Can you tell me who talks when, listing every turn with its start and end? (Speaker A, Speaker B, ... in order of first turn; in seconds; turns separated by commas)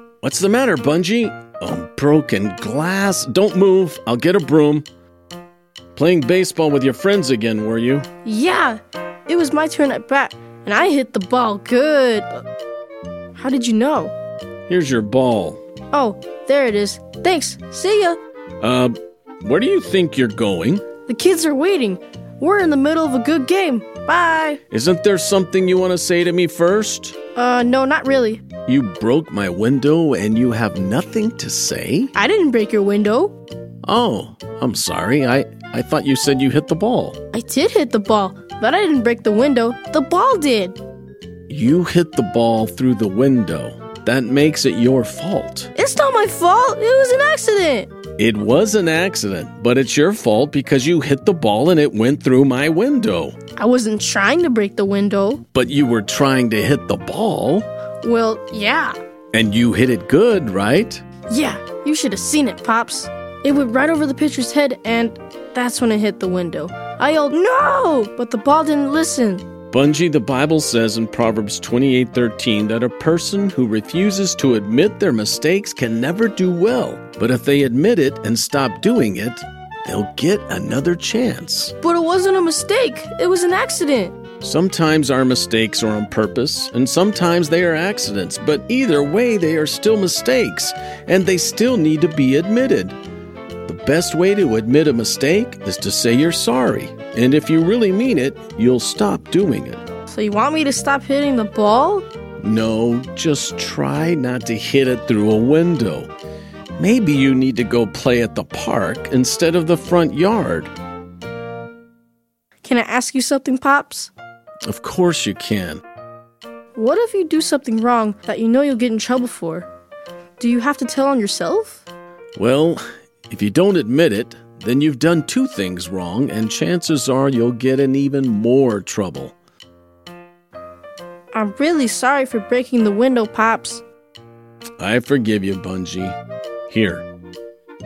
Speaker A: 0.2-4.9, Speaker A: 6.0-8.1, Speaker B: 8.2-12.4, Speaker B: 13.4-14.1, Speaker A: 14.7-15.6, Speaker B: 15.9-18.2, Speaker A: 18.6-20.8, Speaker B: 21.1-24.6, Speaker A: 24.7-27.2, Speaker B: 27.4-28.4, Speaker A: 28.7-32.1, Speaker B: 32.1-33.3, Speaker A: 33.8-37.2, Speaker B: 37.3-40.8, Speaker A: 41.5-45.7, Speaker B: 45.8-47.9, Speaker A: 48.2-53.4, Speaker B: 53.6-55.4, Speaker A: 55.5-57.7, Speaker B: 58.0-59.0, Speaker A: 59.3-61.0, Speaker B: 61.3-69.4, Speaker A: 69.7-81.8, Speaker B: 81.8-84.2, Speaker A: 84.4-93.0, Speaker A: 93.7-99.8, Speaker B: 100.1-102.1, Speaker A: 102.4-106.1, Speaker A: 106.8-110.7, Speaker B: 112.6-114.1, Speaker A: 114.7-115.8, Speaker B: 116.8-119.7, Speaker B: 120.4-121.8, Speaker A: 122.4-129.4, Speaker B: 131.3-133.8, Speaker A: 134.8-136.2, Speaker A: 136.7-137.0